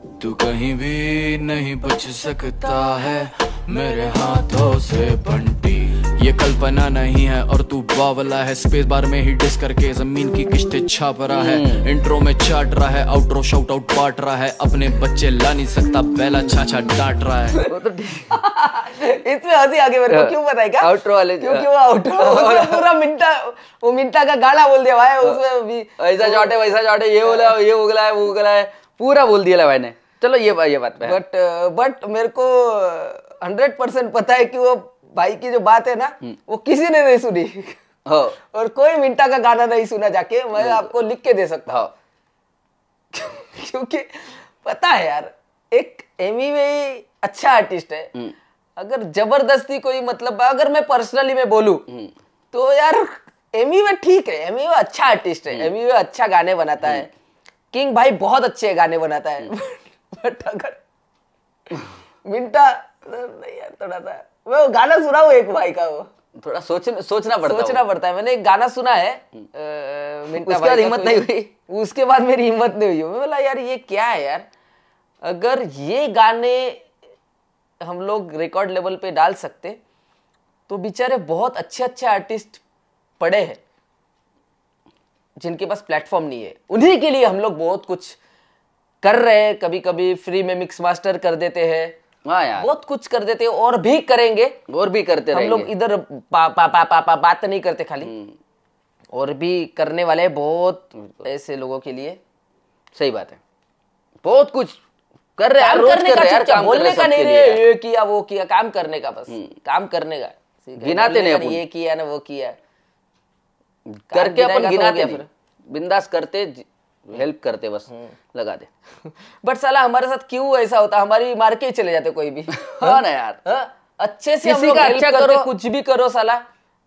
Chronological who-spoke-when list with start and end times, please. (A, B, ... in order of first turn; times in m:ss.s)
0:00.2-0:17.6 A
0:11.3-0:11.9 B
0:17.6-0:18.7 B
0:18.7-0:26.6 C
0:20.1-0:22.9 B
0:26.0-0:31.2 B
0:27.3-0:27.5 C
0:31.0-0:37.8 C
0:38.1-0:38.4 B
0:38.5-0:41.8 C
0:40.6-0:40.9 B
0:43.1-0:48.1 C
0:48.8-0:51.9 C
0:52.5-0:57.1 C
0:57.7-1:00.8 C
1:02.2-1:06.1 C
1:06.4-1:07.8 B
1:07.4-1:14.5 C
1:10.3-1:11.5 B
1:15.2-1:16.9 C
1:17.8-1:19.8 C
1:20.7-1:22.6 C
1:23.2-1:23.6 C
1:25.4-1:28.2 C
1:29.0-1:32.0 C
1:32.3-1:32.7 B
1:32.6-1:34.6 C
1:34.7-1:35.7 B
1:35.3-1:38.1 C
1:38.0-1:38.4 B
1:39.1-1:42.2 C
1:41.0-1:41.2 B
1:43.0-1:43.4 B
1:44.2-1:44.8 B
1:45.4-1:47.6 B
1:45.6-1:52.6 C
1:50.8-1:51.6 B
1:53.9-1:58.7 B
1:54.1-1:55.3 C
1:59.0-2:06.4 C
2:02.5-2:03.4 B
2:04.4-2:05.5 B